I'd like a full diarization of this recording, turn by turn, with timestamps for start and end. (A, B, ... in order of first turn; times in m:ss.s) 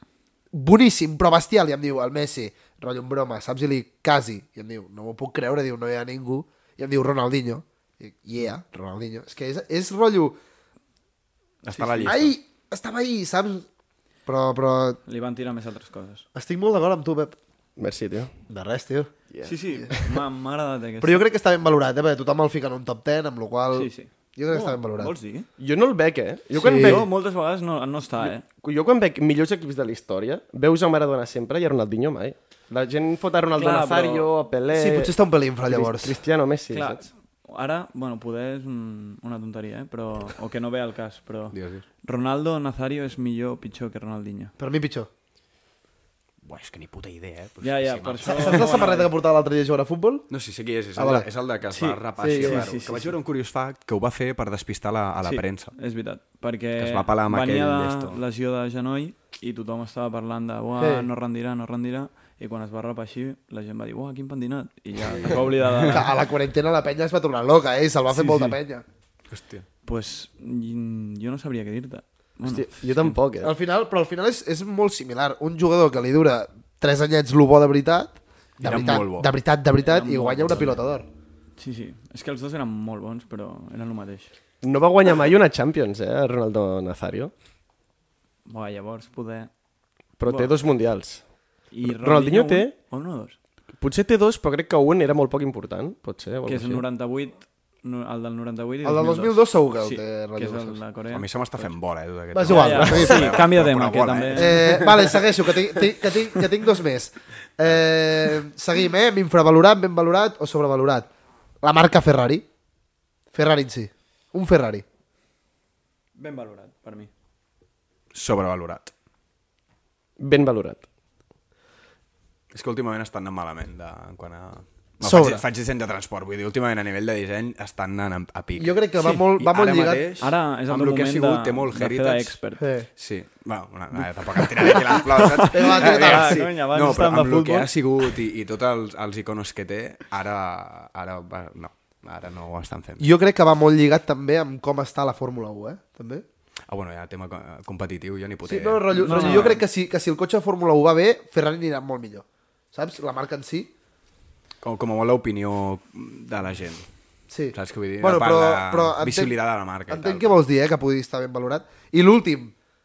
0:00.5-0:10.4 A
0:11.6-0:12.3 B
0:11.6-0:12.3 C
0:12.1-0:13.7 A
0:14.3-0:15.0 A
0:15.1-0:16.2 B
0:16.4-0:17.4 A
0:17.8-0:18.3 D
0:18.5-0:19.1 A
0:19.3-0:20.2 D
0:19.4-0:21.2 B
0:21.0-0:25.1 A
0:23.7-0:25.5 B
0:25.6-0:27.1 D
0:26.6-0:27.1 A
0:26.7-0:28.4 B
0:28.2-0:35.1 D
0:33.6-0:34.3 B
0:34.7-0:36.2 A
0:35.7-0:37.0 D
0:36.7-0:44.5 B
0:41.5-0:41.8 C
0:44.6-0:45.1 A
0:46.4-0:48.7 C
0:47.6-0:49.1 B
0:48.3-0:50.3 A
0:50.3-0:55.7 C
0:51.0-0:51.3 A
0:51.7-0:53.1 B
0:52.2-0:52.7 A
0:55.2-1:06.1 B
0:56.8-0:58.2 C
1:00.8-1:01.1 A
1:05.1-1:06.0 C
1:05.9-1:08.8 A
1:08.1-1:08.6 B
1:09.3-1:09.6 C
1:09.8-1:13.2 B
1:12.5-1:13.5 D
1:13.4-1:21.1 A
1:18.6-1:19.3 C
1:19.8-1:20.8 B
1:21.6-1:24.3 B
1:24.6-1:27.3 D
1:28.5-1:29.5 B
1:30.2-1:31.2 D
1:30.2-1:30.6 B
1:31.7-1:33.4 B
1:31.8-1:32.8 D
1:33.8-1:36.8 D
1:36.4-1:41.7 B
1:38.8-1:40.8 A
1:41.1-1:45.1 C
1:42.3-1:43.3 A
1:42.4-1:44.9 B
1:42.9-1:43.3 D
1:44.3-1:51.1 A
1:51.6-1:52.4 A
1:53.3-1:54.8 A
1:56.2-1:57.1 B
1:58.1-1:58.9 C
2:00.2-2:00.8 D
2:02.5-2:08.8 C
2:05.0-2:05.4 A
2:08.6-2:10.1 A
2:09.4-2:12.4 C
2:10.2-2:12.7 B
2:12.6-2:12.9 A
2:13.0-2:23.1 C
2:14.6-2:18.1 B
2:15.5-2:16.5 A
2:23.0-2:26.2 A
2:26.7-2:29.6 C
2:28.5-2:33.7 A
2:28.9-2:29.6 B
2:34.6-2:36.9 C
2:37.3-2:39.3 A
2:37.5-2:40.3 C
2:39.9-2:42.5 A